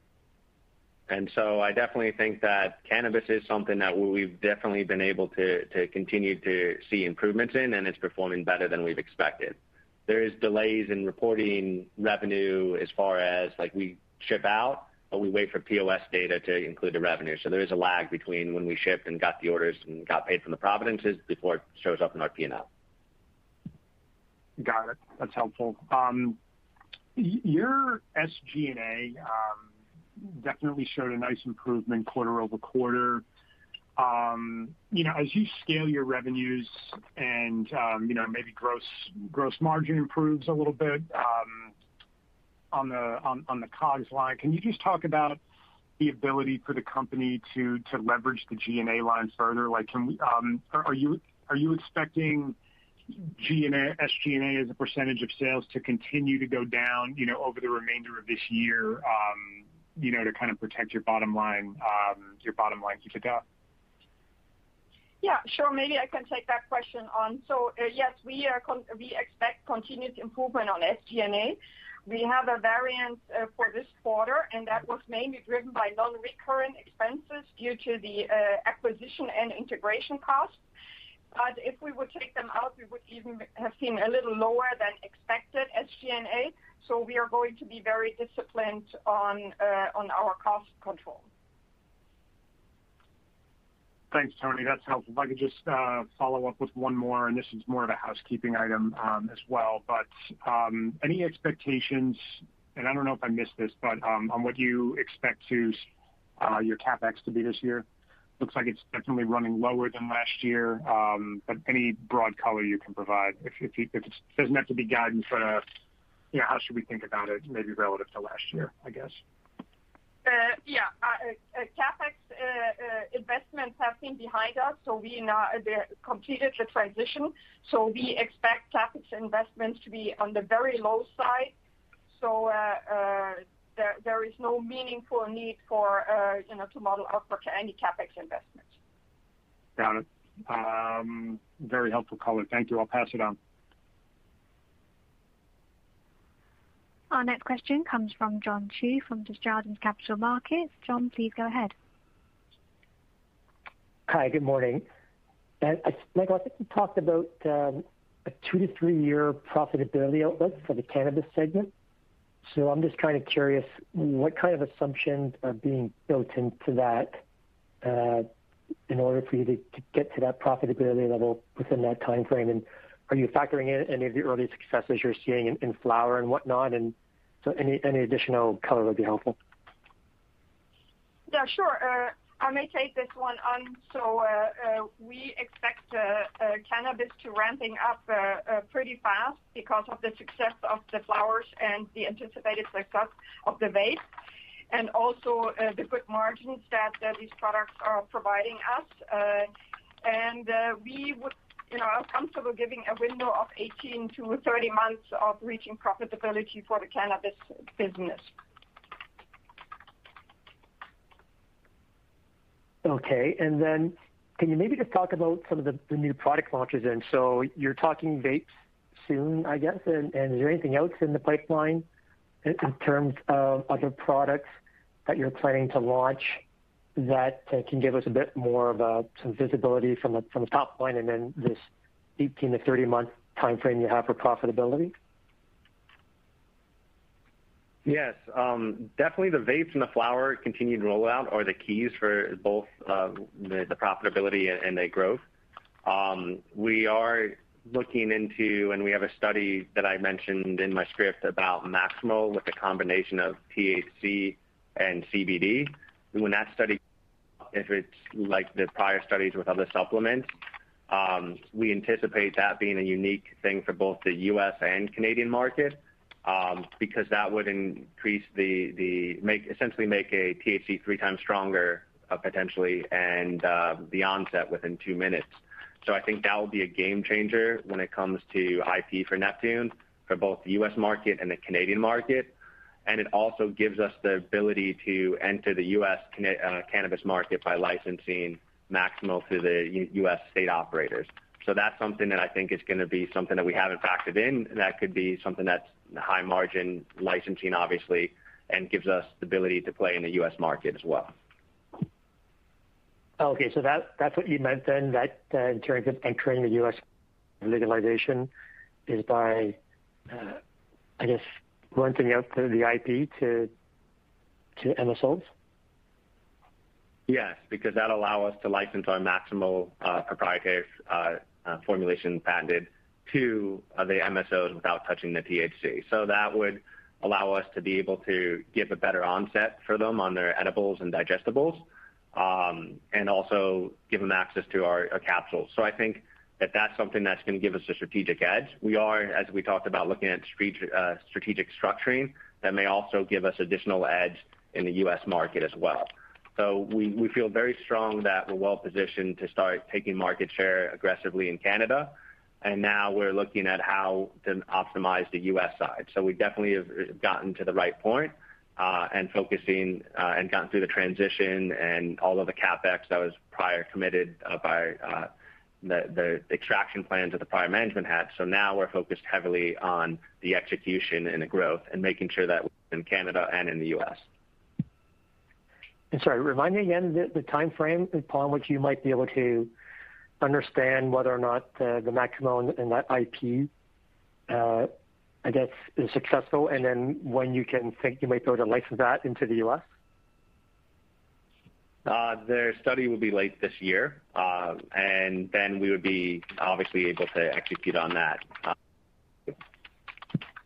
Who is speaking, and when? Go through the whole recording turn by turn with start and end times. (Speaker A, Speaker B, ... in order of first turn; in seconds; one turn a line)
Speaker A: 1.1-22.7
Speaker B: 24.6-26.4
Speaker B: 27.1-33.2
Speaker B: 34.0-41.7
Speaker B: 42.7-45.4
Speaker B: 46.0-52.6
Speaker B: 53.1-63.4
Speaker C: 65.2-80.6
Speaker C: 81.3-91.3
Speaker B: 94.1-105.9
Speaker B: 106.4-107.9
Speaker B: 108.4-115.6
Speaker B: 116.3-119.2
Speaker C: 120.2-131.6
Speaker C: 132.1-138.7
Speaker B: 139.8-143.4
Speaker D: 147.1-151.7
Speaker E: 154.1-154.9
Speaker E: 155.6-161.7
Speaker E: 162.5-167.2
Speaker E: 167.8-168.3
Speaker E: 168.9-179.4
Speaker C: 181.3-194.0
Speaker C: 194.7-199.5
Speaker C: 200.0-208.3
Speaker E: 212.8-221.9
Speaker E: 222.4-224.5
Speaker E: 225.1-226.4
Speaker E: 227.0-231.7
Speaker E: 232.2-234.9
Speaker A: 237.8-245.2
Speaker A: 245.8-256.8
Speaker A: 257.5-260.3
Speaker A: 260.9-301.1
Speaker E: 303.2-306.8
Speaker E: 307.4-308.3
Speaker E: 308.9-309.6
Speaker E: 310.1-310.4
Speaker E: 311.0-313.5
Speaker E: 314.6-315.3
Speaker A: 317.1-365.1
Speaker A: 365.6-374.1
Speaker E: 375.9-379.5
Speaker E: 380.2-383.5
Speaker E: 384.3-384.7
Speaker E: 385.2-389.6
Speaker A: 391.9-398.5